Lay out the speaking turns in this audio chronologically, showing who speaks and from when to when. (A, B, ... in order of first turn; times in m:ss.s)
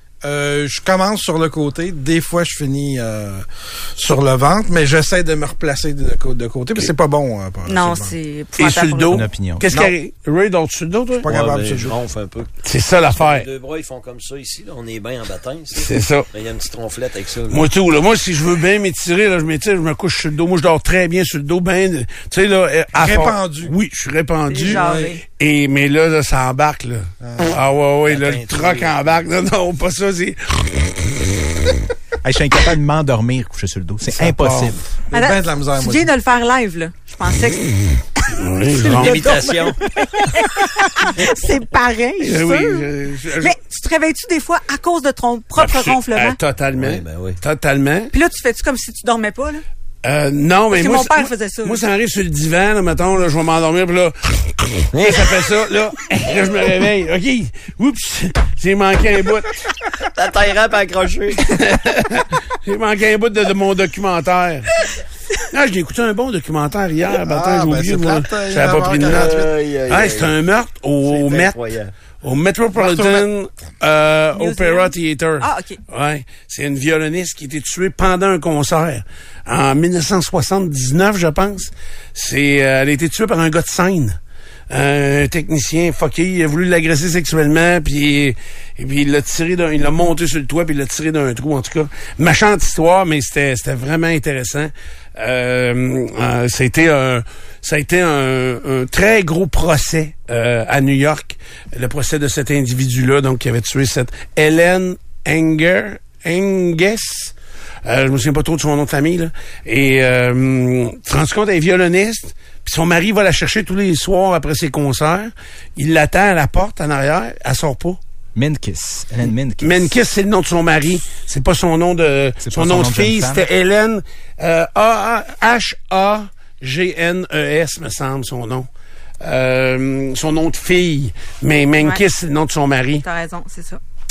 0:00.2-0:03.4 A
0:04.0-0:08.2 A
0:07.6-0:09.2 B
0:08.6-0:11.3 C
0:09.1-0:09.7 D
0:11.2-0:12.0 A
0:11.3-0:12.5 E
0:12.6-0:13.5 C
0:13.1-0:17.7 E
0:15.8-0:16.3 C
0:17.5-0:31.4 C
0:22.9-0:23.7 A
0:24.5-0:25.2 B
0:24.7-0:25.0 A
0:27.2-0:27.5 A
0:28.1-0:29.2 E
0:32.2-0:34.8 D
0:34.2-0:34.7 C
0:35.1-0:36.1 A
0:35.1-0:37.6 B
0:38.3-0:39.7 C
0:38.7-0:42.9 B
0:39.0-0:39.8 E
0:42.2-0:43.6 C
0:43.4-0:46.4 B
0:45.6-0:48.1 C
0:46.8-0:47.4 E
0:48.1-0:49.6 B
0:50.0-0:59.5 C
0:50.7-0:51.8 B
0:54.9-0:55.3 E
1:00.1-1:01.5 E
1:01.4-1:04.7 C
1:05.5-1:09.3 C
1:07.2-1:09.6 A
1:09.0-1:10.4 E
1:09.9-1:11.6 C
1:11.0-1:11.9 E
1:12.2-1:24.2 C
1:12.8-1:13.2 A
1:14.3-1:15.8 B
1:24.7-1:47.3 C
1:47.8-1:58.0 C
1:58.3-1:59.9 D
1:59.6-2:08.7 C
2:02.4-2:03.4 D
2:09.2-2:13.0 C
2:13.0-2:13.8 B